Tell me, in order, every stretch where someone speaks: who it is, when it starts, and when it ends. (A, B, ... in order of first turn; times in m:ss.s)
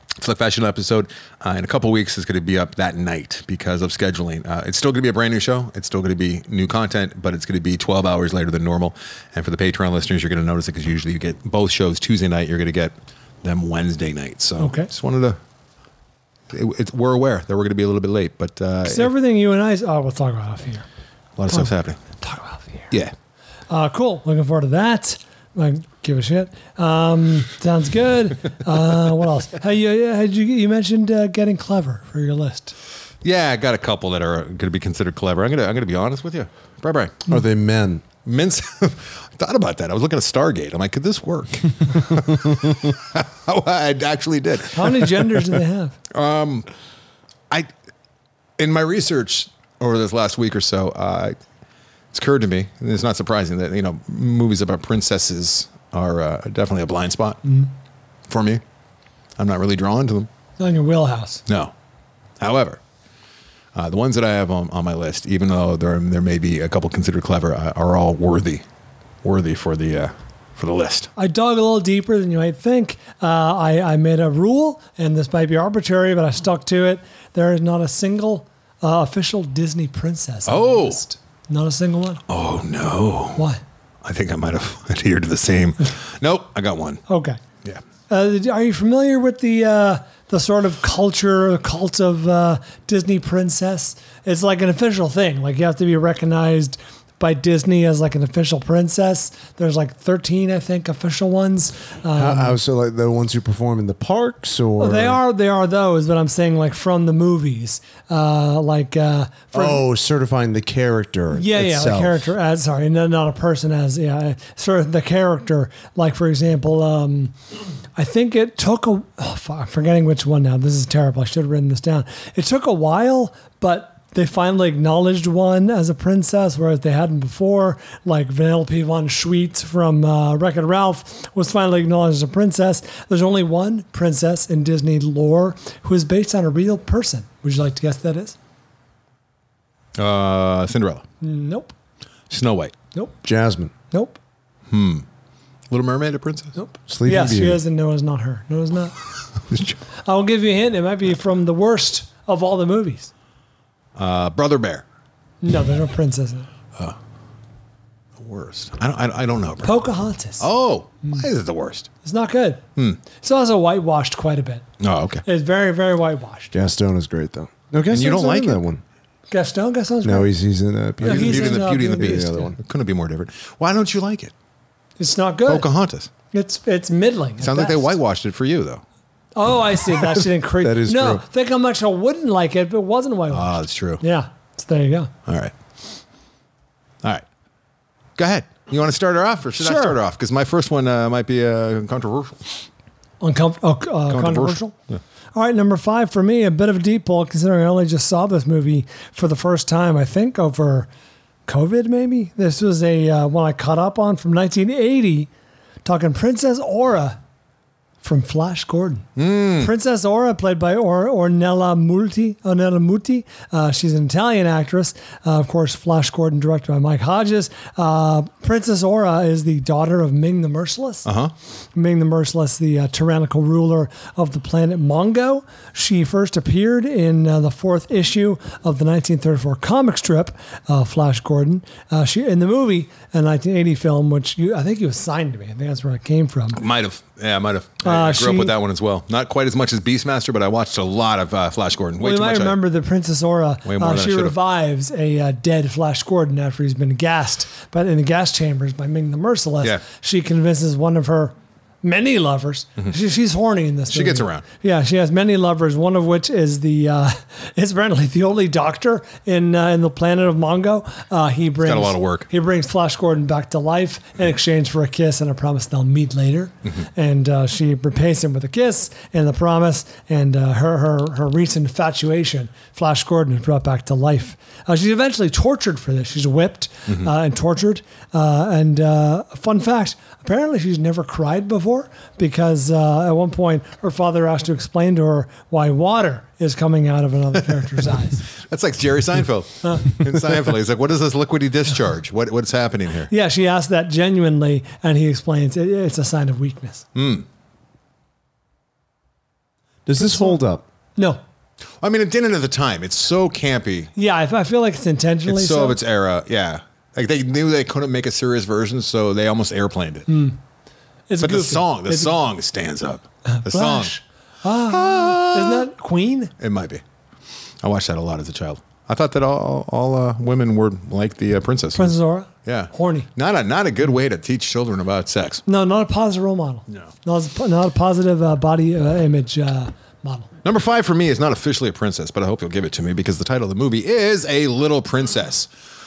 0:00.2-0:15.4 A
0:14.6-0:14.9 B
0:16.5-0:19.1 A
0:18.8-0:20.8 B
0:21.4-0:22.0 A
0:22.2-0:22.9 B
0:23.7-0:32.7 B
0:33.2-0:37.2 A
0:37.3-0:38.0 C
0:38.2-0:45.4 A
0:44.7-0:46.0 B
0:46.1-0:46.7 A
0:48.6-0:51.4 A
0:52.1-0:57.4 A
0:58.3-0:58.6 A
0:59.4-1:00.3 A
1:00.6-1:01.4 B
1:01.5-1:01.7 A
1:02.4-1:02.8 A
1:03.7-1:08.6 A
1:09.2-1:11.1 A
1:11.2-1:22.2 B
1:20.4-1:21.0 A
1:22.3-1:23.4 A
1:23.4-1:23.6 B
1:24.0-1:27.0 A
1:27.1-1:27.4 B
1:28.1-1:42.6 B
1:42.1-1:45.2 C
1:44.8-1:49.8 B
1:49.5-1:52.3 C
1:51.3-1:57.3 B
1:58.0-2:18.3 B
2:20.0-2:21.0 A
2:21.2-2:21.7 B
2:22.3-2:22.7 A
2:23.2-2:23.7 C
2:23.9-2:24.2 B
2:24.7-2:25.0 A
2:25.7-2:26.6 A
2:26.5-2:28.9 B
2:26.9-2:27.6 C
2:29.5-2:29.8 A
2:30.0-2:33.1 B
2:34.0-2:34.8 A
2:35.4-2:36.5 B
2:38.2-2:39.8 A
2:39.6-2:40.5 B
2:40.4-2:41.9 A
2:42.0-2:42.6 B
2:43.2-2:44.6 B
2:44.8-2:45.2 A
2:45.2-2:46.5 B
2:46.5-2:48.8 C
2:47.9-2:48.6 A
2:49.3-2:50.3 B
2:50.0-2:52.6 C
2:51.0-2:52.5 B
2:51.0-2:54.3 A
2:55.0-2:55.7 B
2:55.4-2:56.1 A
2:56.3-2:57.9 B
2:57.4-2:58.8 A
2:59.4-3:05.1 B
3:00.6-3:01.2 C
3:03.3-3:04.0 A
3:05.3-3:05.5 A
3:08.2-3:12.6 A
3:09.6-3:10.0 B
3:13.2-3:14.7 B
3:14.1-3:15.0 A
3:15.3-3:20.9 B
3:21.5-3:25.3 B
3:25.8-3:27.2 B
3:28.0-3:29.1 B
3:29.2-3:29.7 A
3:29.6-3:41.0 B
3:41.0-3:41.3 A
3:41.7-3:56.6 B
3:56.5-4:02.6 A
3:57.8-3:58.5 B
4:02.0-4:48.2 B
4:03.6-4:04.3 A
4:13.9-4:14.4 A
4:21.6-4:22.3 A
4:48.3-4:53.1 A
4:53.1-4:56.8 B
4:56.9-4:57.2 A
4:59.8-5:00.6 C
5:00.0-5:00.4 B
5:01.8-5:03.9 A
5:04.0-5:05.8 B
5:05.3-5:10.1 A
5:10.1-5:10.4 B
5:11.1-5:12.1 B
5:11.2-5:13.9 A
5:13.3-5:16.3 B
5:14.6-5:15.7 A
5:16.4-5:16.8 A
5:17.6-5:21.9 A
5:21.7-5:23.1 B
5:22.4-5:25.4 A
5:25.4-5:30.3 B
5:30.4-5:35.5 A